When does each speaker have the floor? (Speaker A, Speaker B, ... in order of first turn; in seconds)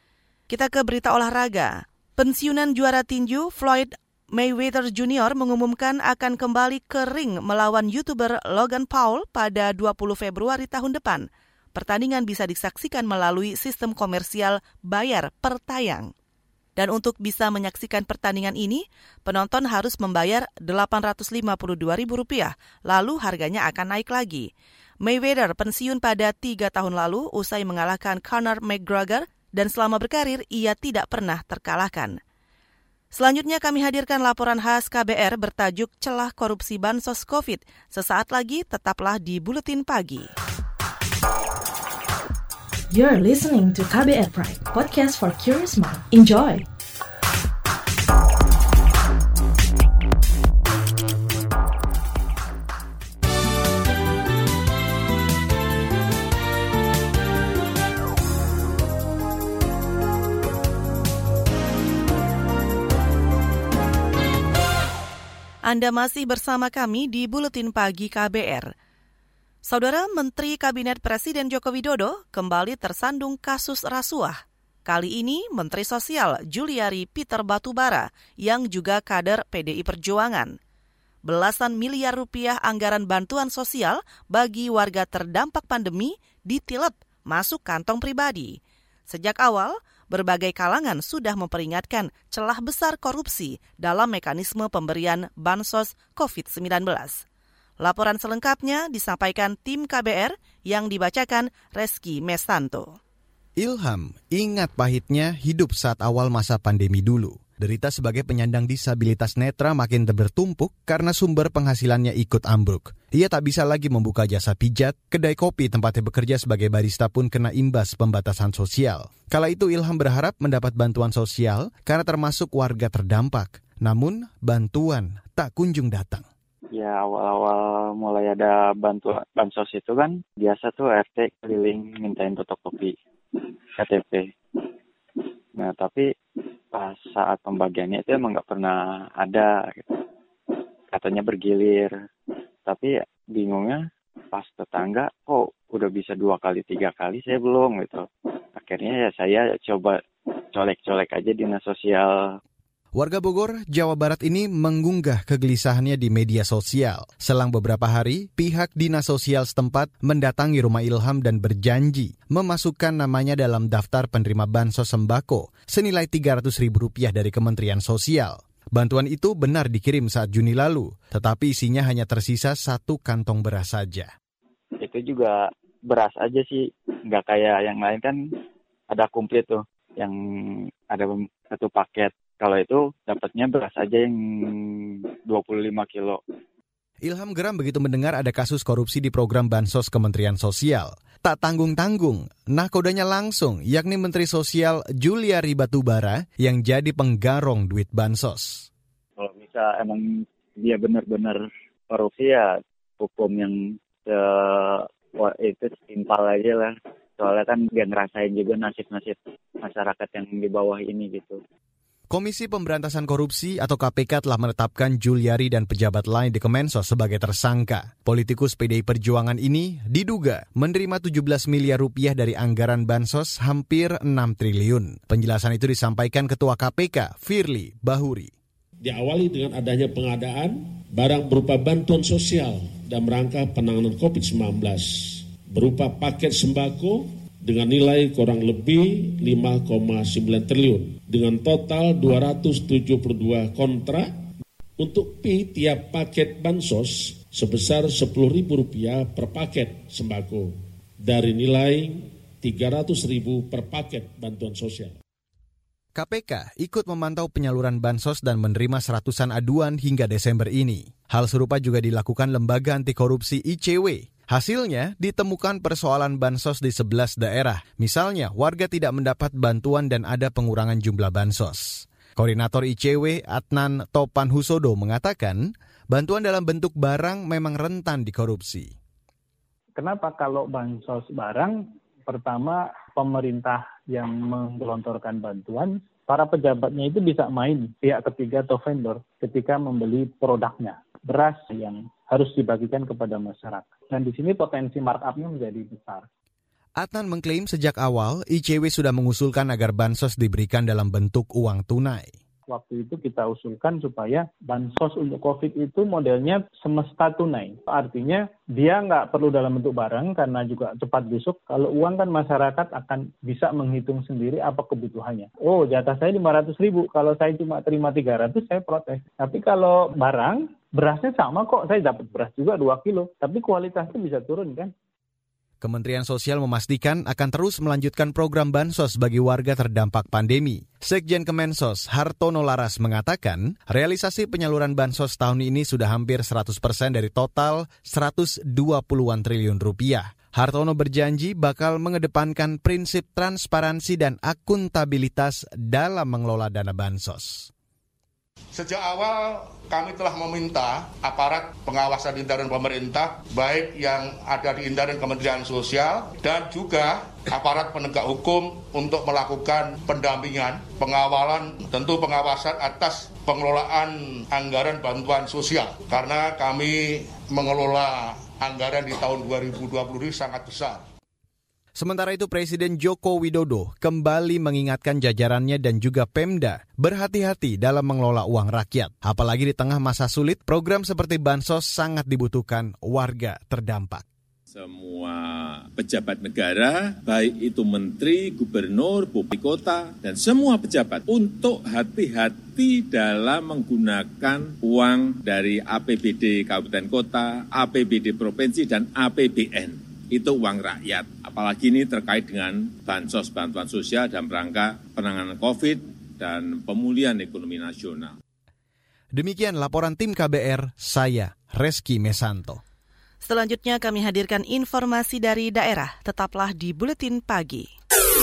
Speaker A: 0.5-16.1, 16.8-24.5, 25.0-32.2, 33.1-40.3, 65.7-68.7, 69.6-80.5, 81.2-97.2, 97.8-102.9, 413.2-417.7
Speaker B: 42.9-46.7
Speaker C: 103.6-126.2, 152.9-174.1, 187.0-198.7, 212.1-228.3, 255.9-278.7, 296.8-302.1, 325.6-347.5, 371.8-384.0, 409.1-412.6
Speaker D: 126.8-132.9, 133.8-134.2, 135.6-136.0, 136.7-139.8, 140.9-141.9, 142.7-143.8, 144.3-148.0, 148.6-149.9, 150.5-152.1, 174.8-175.3, 175.9-178.2, 178.9-180.2, 180.9-184.1, 185.3-186.2, 199.2-200.0, 200.6-211.4
Speaker E: 228.8-255.0
Speaker F: 279.8-296.1, 302.5-324.7
Speaker G: 348.5-370.9
Speaker H: 384.5-408.2